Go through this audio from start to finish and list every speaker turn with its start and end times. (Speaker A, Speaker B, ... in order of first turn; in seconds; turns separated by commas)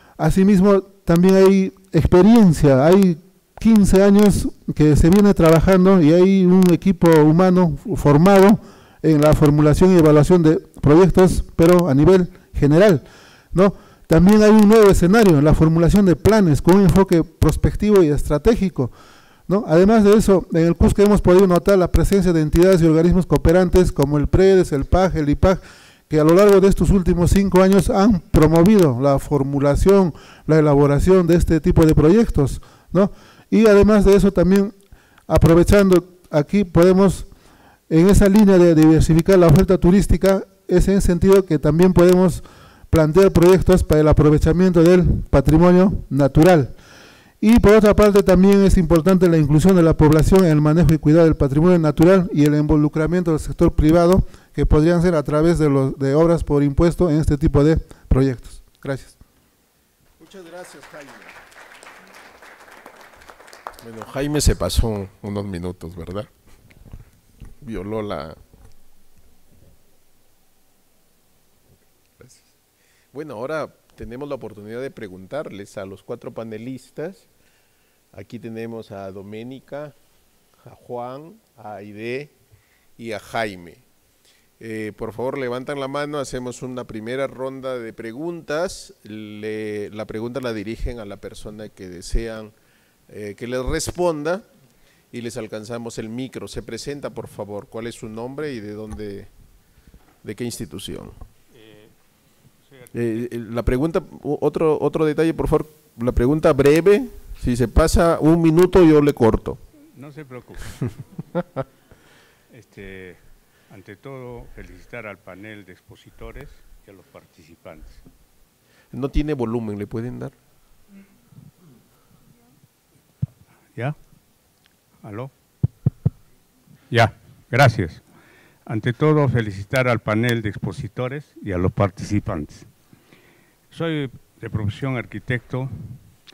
Speaker A: 0.2-18.9, Speaker A: 19.5-34.7, Speaker A: 35.3-37.3, Speaker A: 37.9-46.7, Speaker A: 47.4-59.2, Speaker B: 60.2-61.4, Speaker B: 63.8-66.3, Speaker B: 67.6-68.4, Speaker B: 72.2-72.5, Speaker B: 73.1-77.3, Speaker B: 78.1-80.0, Speaker B: 80.6-82.3, Speaker B: 83.0-83.8, Speaker B: 84.6-92.5, Speaker B: 93.1-94.5, Speaker B: 95.1-99.3, Speaker B: 100.2-101.2, Speaker C: 101.5-101.9, Speaker C: 102.7-103.2, Speaker B: 102.9-109.6, Speaker C: 110.0-110.9, Speaker C: 112.5-118.0, Speaker B: 118.9-120.3, Speaker C: 125.0-125.3, Speaker C: 126.9-128.0, Speaker C: 128.7-132.7, Speaker C: 133.7-136.0